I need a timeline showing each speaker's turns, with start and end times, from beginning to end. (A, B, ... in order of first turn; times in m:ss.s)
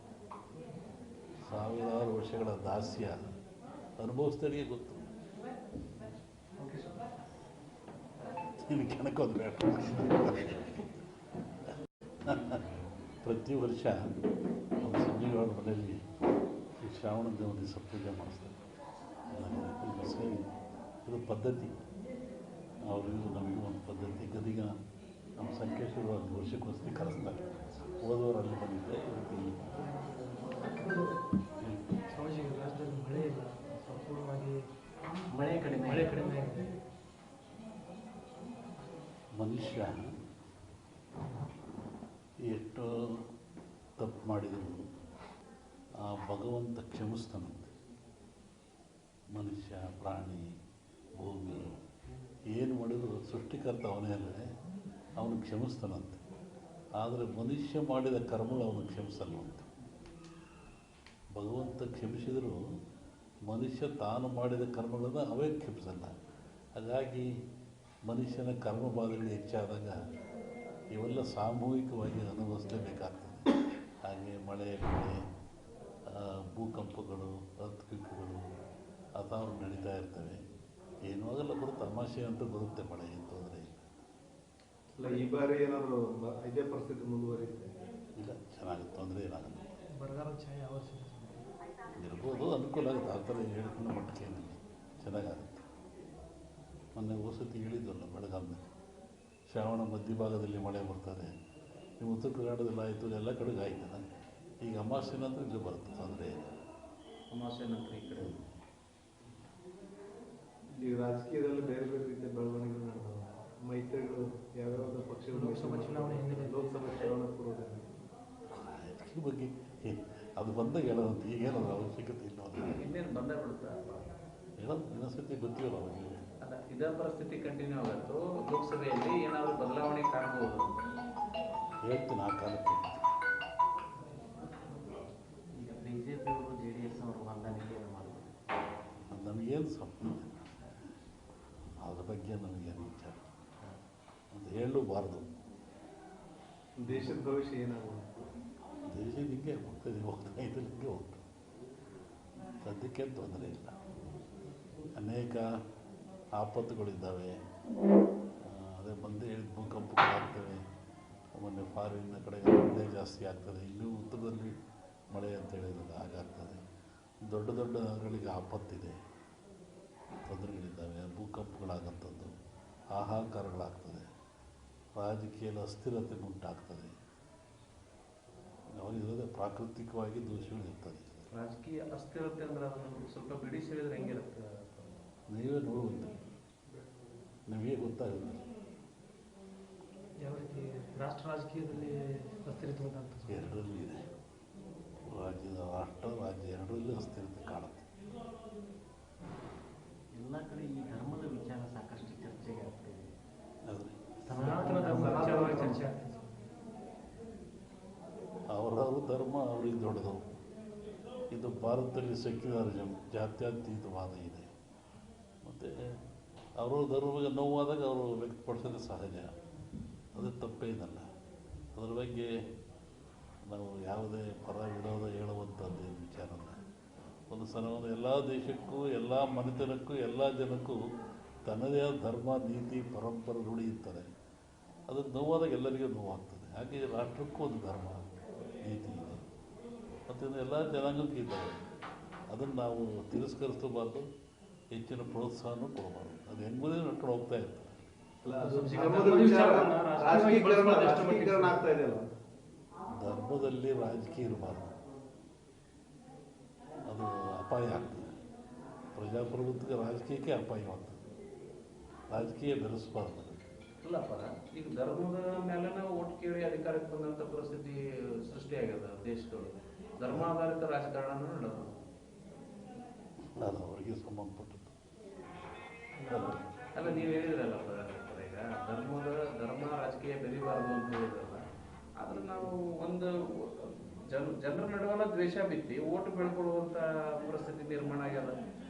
0:01.5-0:03.2 A
0:04.0-0:05.0 A
0:06.6-0:07.0 B
0:08.6-0:11.0 A
0:12.2-0:12.6 A
0:13.2-0:14.0 A
0:14.8-0:16.0 A
0:16.8-0:18.6 A
0:19.3-0:20.5 A
0:21.0-0:21.8 A
0:22.8-0:24.8 A
0:25.4-0:27.5 A
0:28.0-0:29.6 A
0:29.7-0:31.1 C
0:31.6-0:31.9 A
0:32.1-0:34.6 C
0:35.3-0:36.1 B
0:35.8-0:36.8 C
0:39.4-0:40.0 A
0:42.4-0:43.3 A
0:44.0-0:44.9 A
0:46.0-0:47.7 A
0:49.3-0:50.5 A
0:51.2-0:51.8 A
0:52.5-0:54.5 A
0:55.2-0:56.2 A
0:57.0-0:59.7 A
1:01.4-1:02.6 A
1:03.4-1:06.1 A
1:06.8-1:07.3 A
1:08.0-1:10.0 A
1:10.9-1:13.5 A
1:14.0-1:15.2 A
1:16.1-1:18.4 A
1:19.2-1:20.4 A
1:21.0-1:23.8 A
1:24.9-1:27.7 D
1:28.2-1:29.7 A
1:29.9-1:31.5 C
1:32.0-1:35.6 A
1:37.0-1:38.7 A
1:39.5-1:41.3 A
1:42.0-1:44.0 A
1:44.6-1:46.6 A
1:47.3-1:48.4 E
1:50.7-1:57.9 D
1:55.3-1:56.8 C
1:58.5-2:02.7 A
2:02.7-2:04.1 E
2:04.6-2:06.2 A
2:06.4-2:10.7 E
2:11.8-2:13.0 A
2:15.6-2:18.3 B
2:19.0-2:20.5 A
2:21.8-2:23.3 A
2:24.3-2:25.3 A
2:26.8-2:28.3 D
2:28.9-2:31.2 A
2:32.6-2:33.8 A
2:35.0-2:35.5 A
2:36.4-2:37.4 A
2:38.4-2:40.6 A
2:41.4-2:44.6 A
2:45.1-2:46.6 A
2:47.2-2:49.0 A
2:50.2-2:52.3 A
2:52.9-2:54.1 A
2:55.0-2:56.9 A
2:58.7-3:01.3 A
3:01.3-3:04.9 E
3:05.3-3:06.2 A
3:07.5-3:08.5 A
3:10.2-3:13.6 C
3:13.3-3:14.0 A
3:15.1-3:17.9 A
3:20.2-3:23.0 B
3:23.6-3:24.1 A
3:24.2-3:25.5 B
3:24.3-3:25.8 D
3:24.4-3:26.5 C
3:28.5-3:30.2 A
3:31.3-3:34.5 A
3:35.4-3:36.0 A
3:36.6-3:39.3 A
3:40.1-3:41.1 A
3:41.8-3:42.3 A
3:43.4-3:46.6 A
3:47.3-3:50.8 A
3:51.4-3:54.1 A
3:54.9-3:58.0 A
3:58.6-3:59.3 A
4:00.1-4:01.6 A
4:02.3-4:04.1 A
4:04.7-4:07.8 A
4:08.2-4:12.1 D
4:08.4-4:11.7 C
4:12.9-4:14.7 A
4:16.9-4:18.1 A
4:18.9-4:21.0 A
4:22.1-4:23.4 A
4:23.8-4:31.7 E
4:33.4-4:34.7 A
4:36.0-4:37.0 C
4:36.1-4:36.4 A
4:36.7-4:41.4 E
4:42.0-4:48.4 E